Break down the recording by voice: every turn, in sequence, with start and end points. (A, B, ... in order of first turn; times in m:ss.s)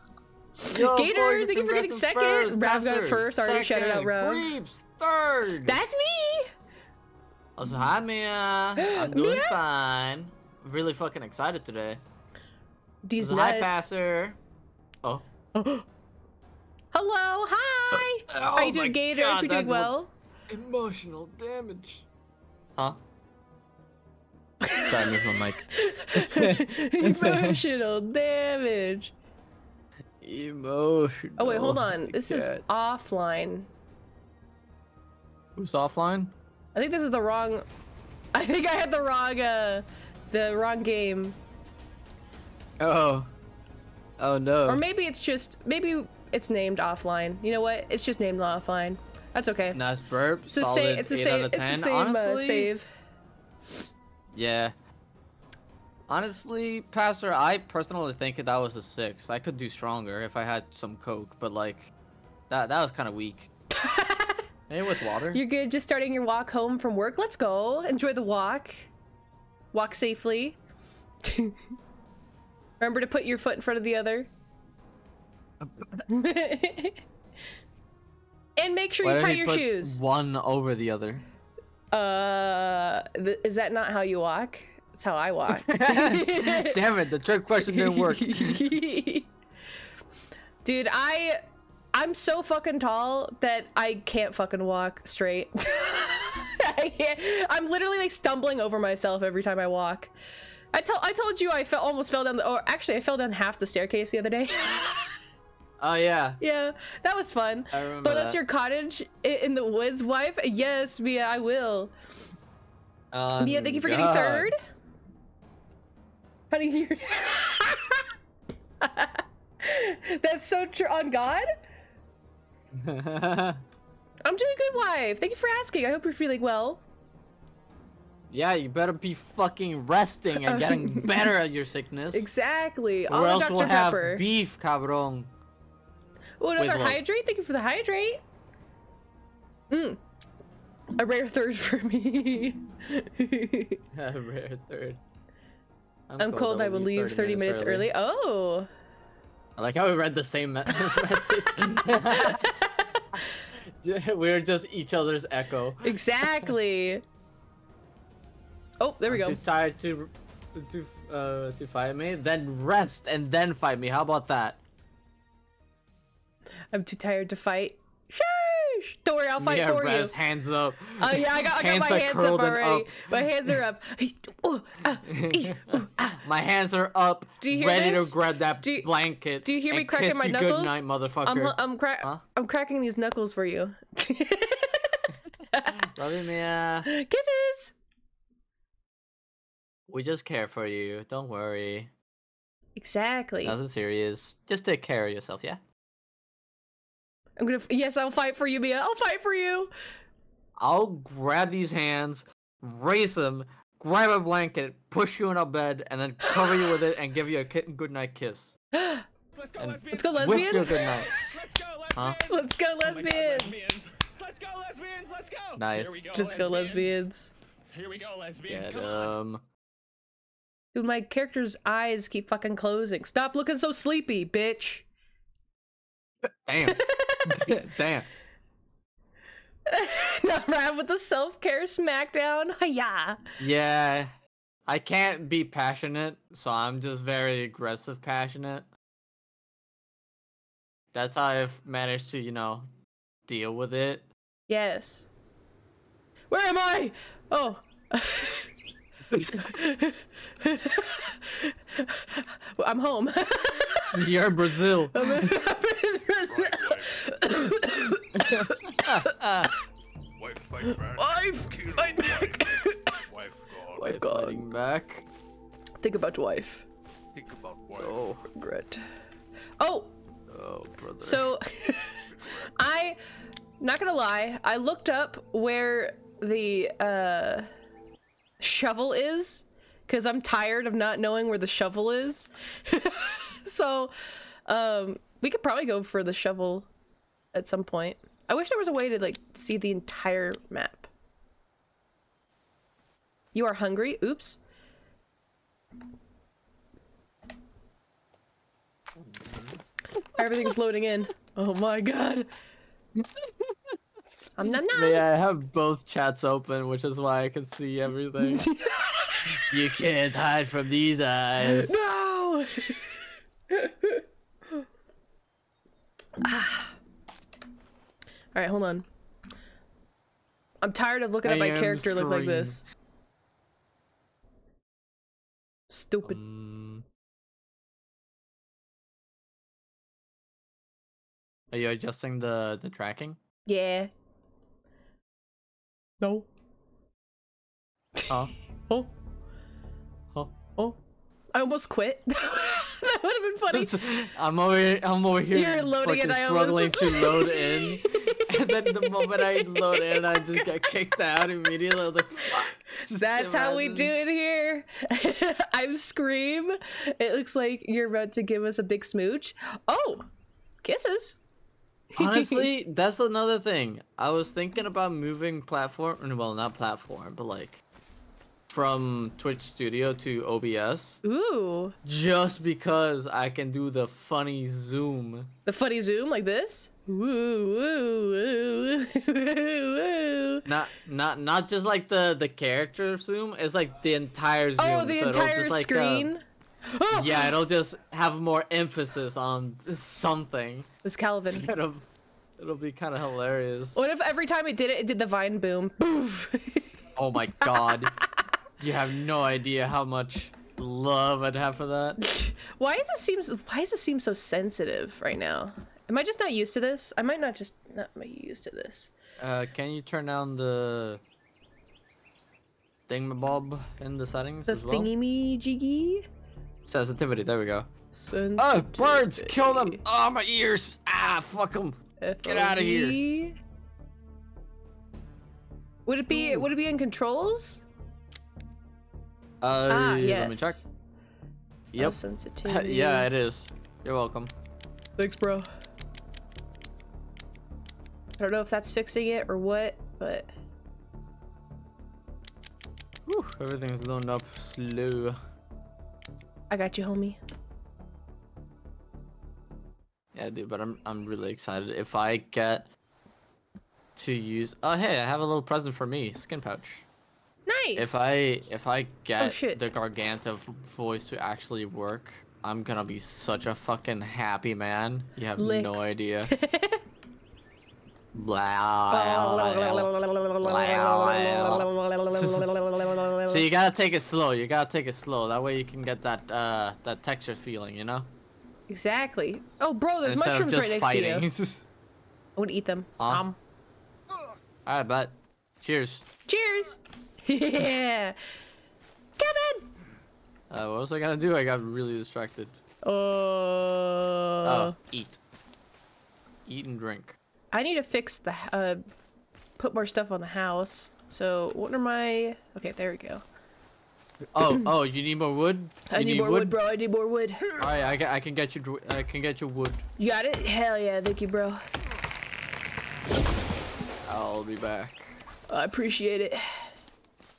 0:00.6-0:04.5 A
0:00.7-0:05.8 B
0:05.6-0:06.5 A
0:07.6-0:12.0 B
0:08.8-0:09.6 A
0:13.0-0:13.9 A
0:13.2-0:14.4 B
0:15.5-0:15.8 A
0:16.9-0:20.1 A
0:17.9-0:19.9 B
0:20.5-0:22.0 B
0:24.6-0:29.1 A
0:24.8-0:27.6 B
0:30.2-0:32.6 B
0:31.4-0:33.7 A
0:35.6-0:36.3 B
0:36.7-0:37.6 A
0:38.3-0:41.4 A
0:42.8-0:43.3 B
0:44.2-0:44.8 B
0:44.6-0:49.8 A
0:49.7-0:52.7 B
0:50.4-0:52.9 A
0:54.3-0:54.7 B
0:56.1-1:01.9 B
1:02.5-1:03.5 B
1:03.7-1:04.4 A
1:04.7-1:05.4 B
1:05.3-1:08.9 A
1:09.7-1:10.6 A
1:11.2-1:11.6 A
1:12.8-1:14.3 A
1:15.6-1:16.0 B
1:16.1-1:17.0 A
1:18.6-1:20.0 A
1:19.0-1:21.2 B
1:21.9-1:26.8 A
1:25.5-1:28.6 B
1:27.6-1:29.3 A
1:30.6-1:31.4 A
1:31.9-1:40.1 A
1:40.7-1:45.1 A
1:45.8-1:46.4 B
1:46.4-1:51.9 A
1:47.7-1:48.4 B
1:53.1-1:54.5 B
1:53.4-1:54.6 A
1:56.5-1:58.1 A
1:58.8-2:01.5 A
2:02.7-2:03.6 B
2:04.2-2:06.8 A
2:08.3-2:12.3 B
2:10.4-2:11.2 A
2:12.1-2:14.2 A
2:13.1-2:15.3 B
2:16.4-2:18.2 A
2:16.6-2:17.0 B
2:19.7-2:20.0 A
2:21.0-2:23.8 A
2:23.9-2:25.0 B
2:26.1-2:27.9 B
2:26.2-2:28.7 A
2:29.6-2:32.4 B
2:32.1-2:33.4 A
2:33.5-2:36.5 B
2:35.8-2:37.0 A
2:38.8-2:39.4 A
2:39.1-2:44.6 B
2:46.7-2:50.1 A
2:49.4-2:53.1 B
2:51.0-2:56.2 A
2:55.0-3:02.2 B
2:57.4-2:58.9 A
2:59.4-3:05.9 A
3:05.7-3:06.9 B
3:06.8-3:07.7 A
3:09.9-3:11.9 B
3:12.8-3:13.6 A
3:13.4-3:15.6 B
3:17.4-3:19.7 A
3:20.6-3:28.6 B
3:28.7-3:29.0 A
3:29.3-3:37.0 C
3:29.6-3:31.1 B
3:29.9-3:31.1 A
3:32.3-3:33.6 A
3:35.6-3:36.1 B
3:36.1-3:37.3 A
3:37.7-3:39.1 C
3:38.5-3:39.4 B
3:40.7-3:44.8 A
3:46.2-3:48.1 B
3:46.6-3:47.5 A
3:49.7-3:53.2 A
3:53.4-3:54.1 B
3:54.7-3:58.7 B
4:00.9-4:02.7 B
4:03.3-4:04.1 B
4:04.5-4:05.1 A
4:06.3-4:08.5 A
4:09.1-4:09.5 B
4:09.4-4:14.1 A
4:13.9-4:15.3 B
4:14.9-4:19.1 A
4:16.3-4:17.1 D
4:18.1-4:19.5 B
4:20.2-4:24.0 D
4:21.0-4:23.0 A
4:23.8-4:24.4 A
4:23.8-4:25.0 B
4:25.8-4:26.6 A
4:27.1-4:28.1 D
4:27.8-4:28.2 B
4:28.3-4:28.8 A
4:29.6-4:29.9 A
4:30.3-4:31.3 B
4:31.0-4:33.0 A
4:33.6-4:37.5 A
4:38.4-4:43.9 A
4:44.4-4:46.7 A
4:47.3-4:50.9 A
4:53.3-4:54.4 A
4:59.0-4:59.6 B
5:00.1-5:02.3 A
5:03.0-5:03.8 B
5:04.4-5:05.1 A
5:04.4-5:08.5 B
5:08.2-5:09.5 A
5:09.3-5:11.8 B
5:11.4-5:12.9 A
5:13.5-5:14.0 A
5:16.2-5:16.8 A
5:18.3-5:18.9 A
5:20.6-5:22.6 A
5:21.2-5:22.6 B
5:25.7-5:26.2 A
5:26.0-5:26.8 B
5:31.5-5:33.2 B
5:33.4-5:33.9 A
5:36.0-5:36.3 A
5:41.3-5:43.8 A
5:43.5-5:53.9 B
5:45.3-5:50.5 A
5:52.2-6:00.1 A
6:00.6-6:01.2 A
6:01.9-6:02.5 A
6:02.0-6:07.6 B
6:08.5-6:11.0 B
6:11.0-6:11.7 A
6:11.8-6:15.3 B
6:15.4-6:20.5 A
6:20.4-6:26.1 B
6:24.6-6:27.3 A
6:26.9-6:30.7 B
6:30.8-6:31.5 A
6:31.2-6:31.9 B
6:32.4-6:33.8 B
6:33.7-6:36.7 A
6:37.0-6:37.9 B
6:37.4-6:37.8 A
6:38.6-6:42.0 B
6:42.0-6:48.9 A
6:49.2-6:51.0 B
6:52.9-6:54.9 B
6:54.5-6:56.1 A
6:56.6-6:57.7 B
6:57.9-6:59.8 A
6:58.4-7:03.0 B
7:02.0-7:03.4 A
7:05.8-7:07.7 A
7:06.1-7:06.4 B
7:09.4-7:10.6 B
7:09.7-7:10.6 A
7:11.7-7:14.3 B
7:11.8-7:13.1 A
7:15.0-7:15.5 A
7:18.2-7:20.3 A
7:23.0-7:25.2 B
7:26.5-7:27.2 A
7:30.1-7:32.7 B
7:34.0-7:36.8 B
7:37.4-7:38.0 A
7:37.8-7:46.3 B
7:39.2-7:39.6 A
7:45.4-7:46.8 A
7:48.1-7:52.5 B
7:48.9-7:53.4 A
7:53.2-7:58.1 B
7:58.7-8:01.3 A
8:00.0-8:01.6 B
8:02.4-8:03.4 A
8:03.0-8:03.2 B
8:04.6-8:06.1 B
8:06.3-8:08.2 A
8:09.2-8:09.7 A
8:10.5-8:12.6 B
8:12.8-8:14.7 A
8:14.4-8:15.2 B
8:16.4-8:17.2 B
8:17.5-8:18.8 A
8:19.6-8:23.2 A
8:24.3-8:26.6 B
8:25.9-8:27.4 A
8:27.6-8:29.8 B
8:30.0-8:31.6 A
8:34.0-8:35.2 B
8:35.5-8:36.7 A